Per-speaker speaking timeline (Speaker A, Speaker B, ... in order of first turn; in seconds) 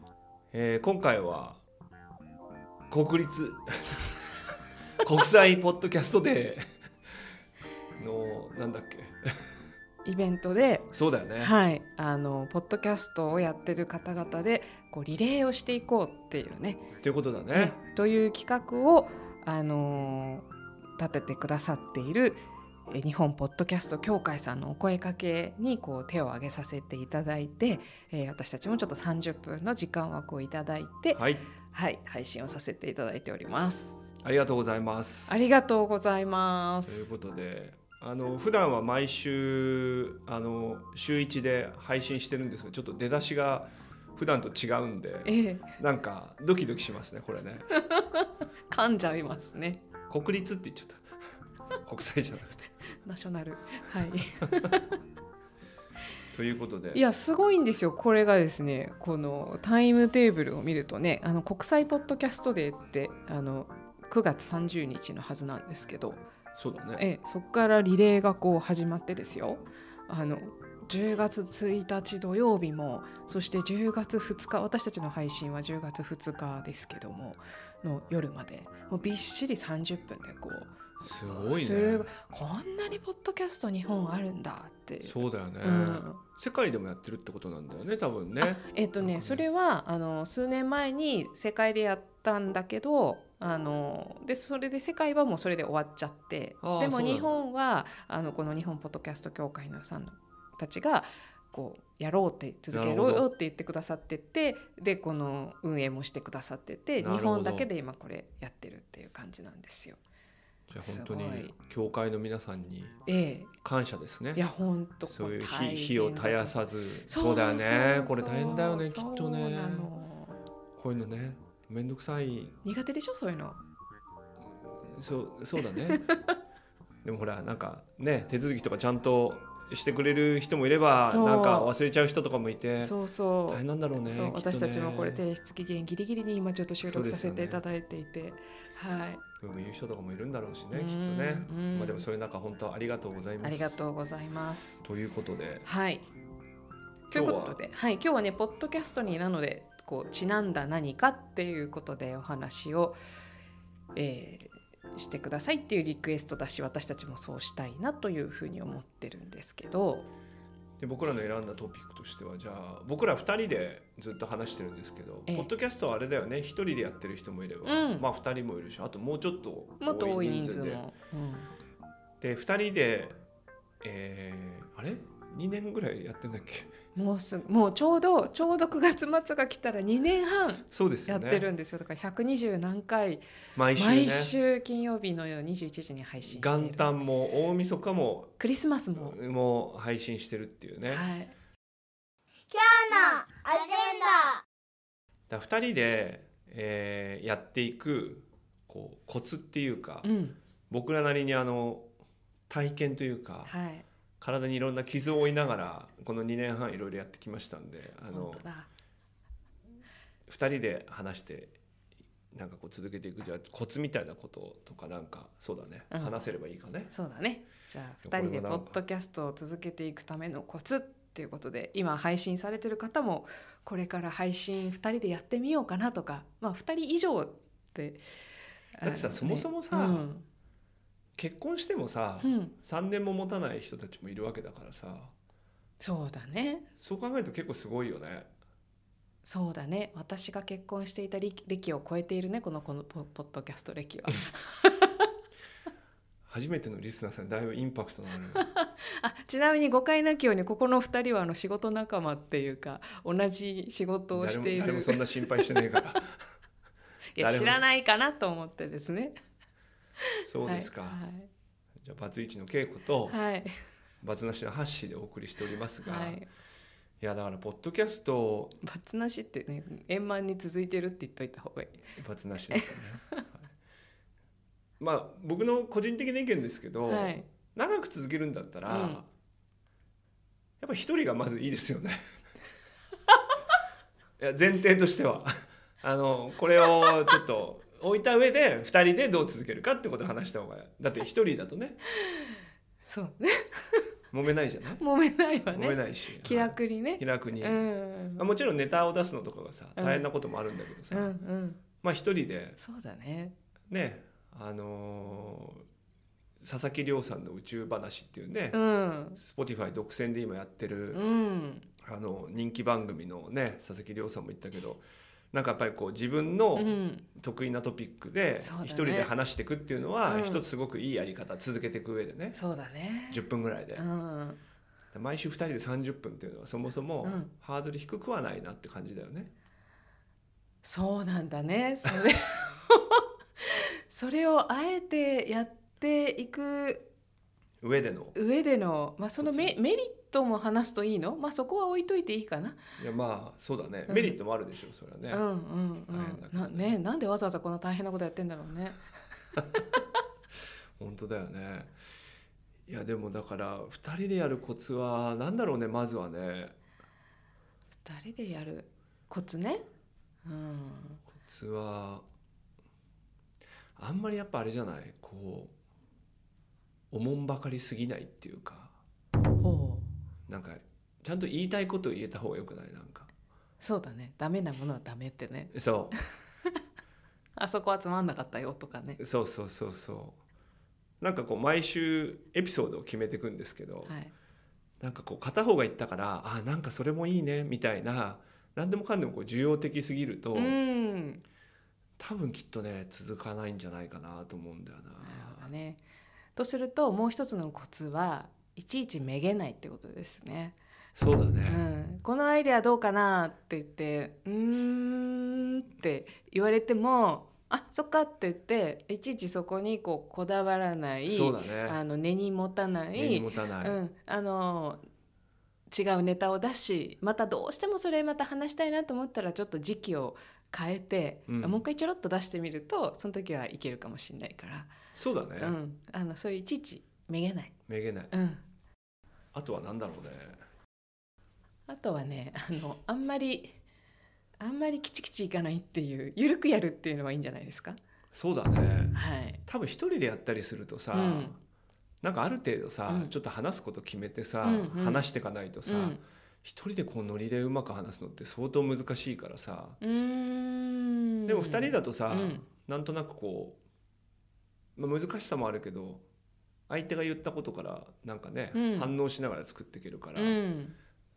Speaker A: 0.5-1.6, 2.9-4.2, 5.0-6.7, 8.0-9.4, 10.9-11.5, 17.0-17.8, 31.1-31.5, 34.2-35.4, 36.9-47.8, 50.1-51.0, 51.8-52.7, 56.3-57.0, 66.5-67.0, 81.0-82.1, 85.0-89.4, 96.6-97.3, 102.7-103.3, 107.0-107.7, 110.7-113.0, 113.6-114.4, 115.1-119.9, 120.8-122.6, 124.8-126.1, 127.0-132.9, 133.5-135.2, 136.8-137.6, 139.4-143.8, 144.8-145.7, 147.1-147.6, 160.8-170.8, 172.2-173.2, 173.8-176.7, 180.7-181.5, 183.6-184.3, 186.2-188.3, 189.0-191.1, 195.3-200.1, 200.7-201.9, 202.5-203.5, 204.2-208.4, 210.3-211.6, 212.3-216.9, 218.0-218.8, 228.8-230.1, 231.2-235.1, 236.8-238.3, 246.3-248.5, 254.1-256.2, 257.2-257.6, 260.2-261.0, 261.8-263.2, 264.0-266.2, 267.0-268.6, 271.9-273.5, 274.8-279.1, 280.6-282.1, 284.2-291.8, 294.1-294.8, 295.5-301.1, 301.8-302.6, 303.7-305.6, 306.4-308.6, 309.2-311.0, 311.8-322.4, 323.1-323.8, 324.9-329.3, 337.6-338.1, 339.2-339.6, 342.8-345.2, 345.9-346.8, 350.8-351.7, 352.7-356.5, 361.1-362.1, 363.8-365.5, 366.9-368.8, 370.3-373.1, 375.5-375.9, 379.0-380.2, 381.0-383.9, 384.8-390.6, 392.0-395.4, 400.9-401.6, 411.1-411.8, 412.9-413.8, 421.3-421.6, 424.9-425.6, 427.7-428.1, 429.3-430.4, 438.1-441.4, 442.0-449.8, 451.2-453.6, 454.8-456.0, 456.7-460.4
Speaker B: 10.0-16.8, 17.5-20.4, 21.0-31.2, 31.7-34.0, 35.3-37.1, 45.2-45.7, 47.7-49.8, 53.0-54.9, 56.9-66.2, 67.0-80.7, 81.3-86.2, 88.4-110.0, 110.7-111.5, 113.0-113.5, 114.3-120.4, 122.6-123.6, 125.9-126.2, 131.0-131.7, 132.8-139.2, 140.7-142.0, 143.4-144.8, 145.6-146.0, 147.1-152.9, 153.9-160.1, 167.6-168.0, 169.8-171.5, 176.9-183.2, 183.8-186.9, 188.4-189.2, 190.9-191.3, 200.0-200.4, 203.4-203.8, 208.1-208.7, 215.9-216.2, 216.9-228.0, 228.8-230.2, 232.2-232.5, 235.8-236.7, 239.2-245.1, 248.3-255.5, 257.1-259.1, 260.4-261.3, 263.1-263.5, 265.8-266.2, 268.6-271.8, 272.5-273.2, 276.9-277.2, 278.7-279.0, 292.8-293.8, 294.8-298.2, 299.8-300.1, 300.9-301.6, 302.6-303.3, 308.5-309.2, 310.9-311.7, 316.5-317.0, 318.4-319.1, 320.1-320.4, 322.3-323.2, 323.7-324.4, 327.0-327.3, 330.6-336.9, 338.1-342.6, 343.9-344.1, 345.1-348.8, 357.8-359.6, 360.2-361.0, 369.4-369.9, 373.6-375.5, 377.4-379.0, 383.9-384.1, 390.3-391.2, 395.0-395.8, 396.4-400.6, 401.5-414.8, 415.7-424.7, 425.4-427.5, 428.1-428.4, 431.7-433.6, 434.4-437.8, 438.9-439.4, 440.9-441.3, 442.9-443.1, 444.4-445.0, 445.6-446.0, 449.8-452.4, 458.5-458.9, 460.1-460.8
Speaker C: 192.5-194.4